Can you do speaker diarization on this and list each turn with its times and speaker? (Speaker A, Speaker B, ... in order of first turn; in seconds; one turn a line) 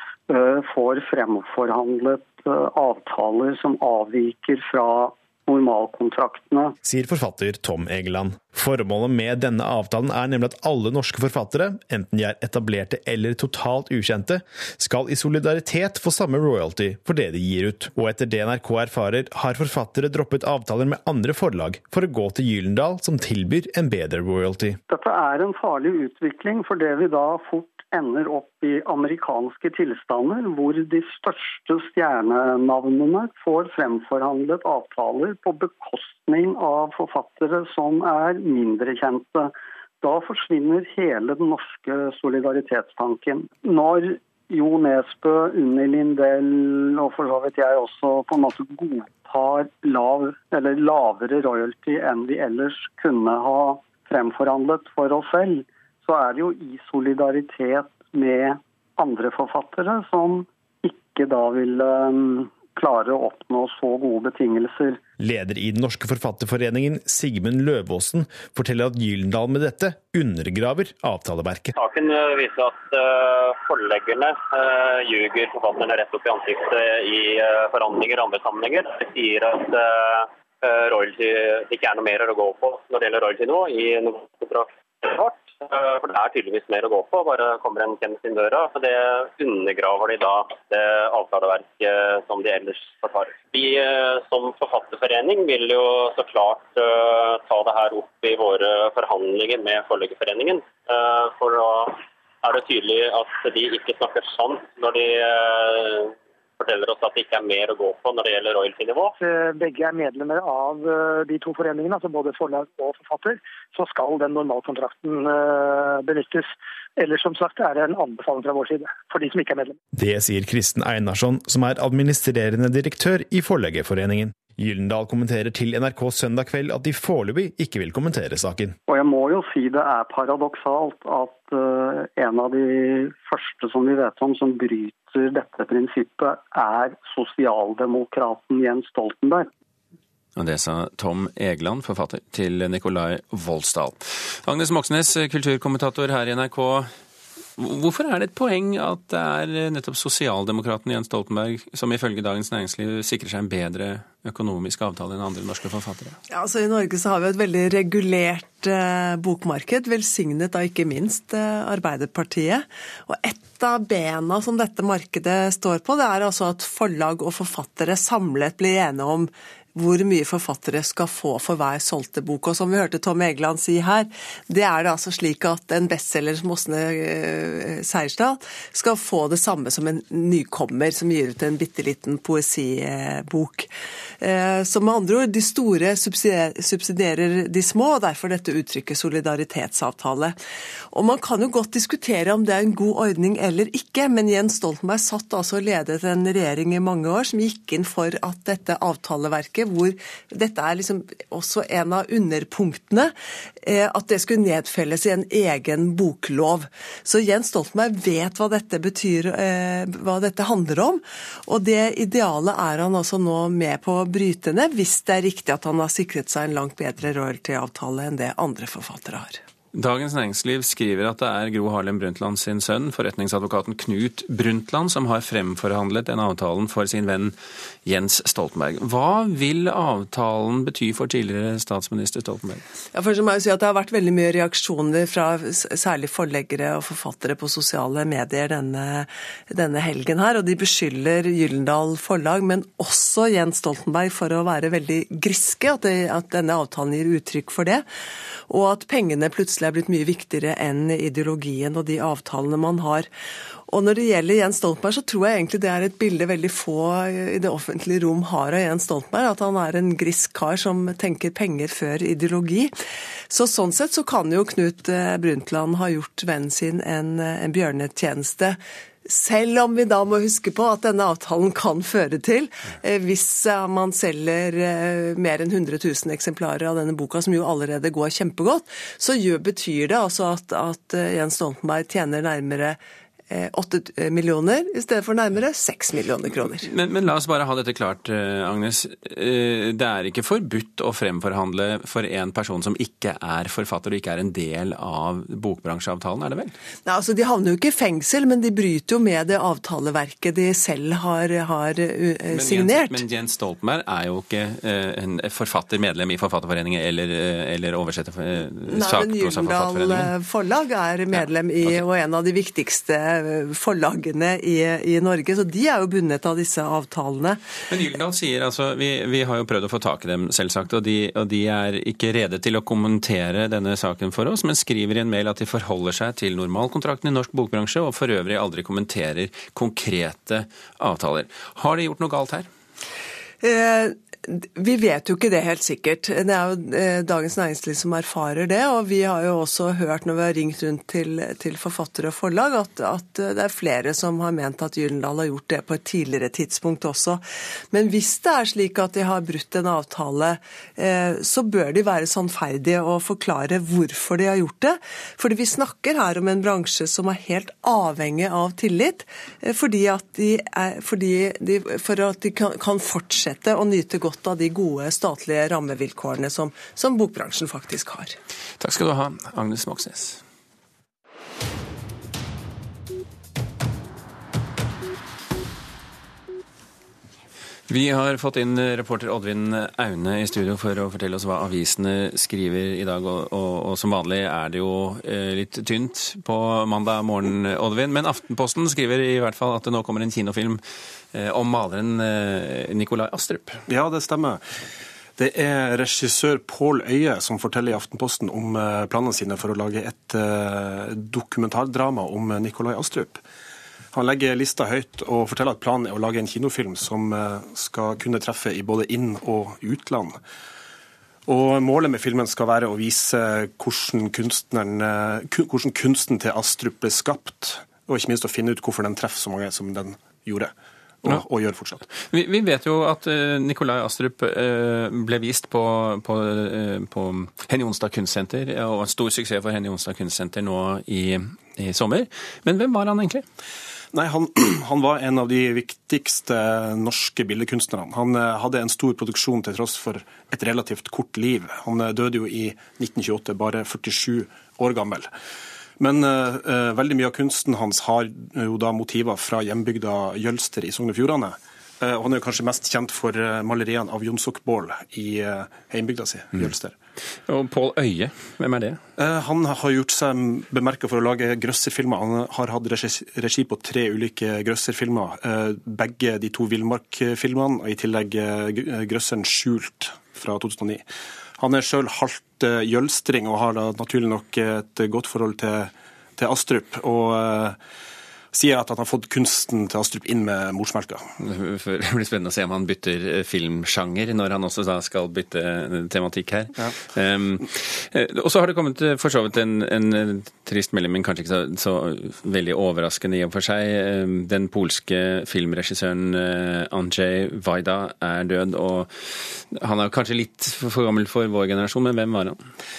Speaker A: 0.3-6.7
Speaker B: 6.8-24.8
Speaker A: 24.9-65.0
Speaker B: 65.2-71.7
Speaker C: 71.7-109.1
Speaker D: 109.2-119.8
Speaker B: 119.9-128.8
Speaker A: 128.9-139.5
Speaker E: 140.3-146.9
Speaker E: 147.6-156.2
Speaker F: 156.3-183.7
Speaker F: 184.2-190.3
Speaker F: 190.9-219.4
Speaker E: 219.7-232.6
Speaker F: 232.9-247.8
Speaker F: 248.5-253.1
Speaker F: 253.7-262.7
Speaker F: 263.3-282.8
Speaker F: 283.3-286.7
Speaker E: 286.6-296.5
Speaker F: 296.9-303.0
Speaker E: 302.3-310.1
Speaker F: 308.7-317.4
Speaker E: 311.1-311.8
Speaker E: 317.7-332.4
Speaker F: 333.4-368.1
Speaker E: 368.6-370.2
Speaker E: 377.7-390.6
Speaker E: 391.1-393.6
Speaker G: 393.7-394.4
Speaker G: 395.2-403.2
Speaker G: 403.9-410.2
Speaker G: 411.2-421.8
Speaker E: 422.0-433.2
Speaker G: 433.9-445.1
Speaker G: 445.8-456.7
Speaker E: 457.3-458.8
Speaker G: 459.0-470.8
Speaker G: 471.4-477.6
Speaker G: 478.3-481.0
Speaker E: 481.2-502.4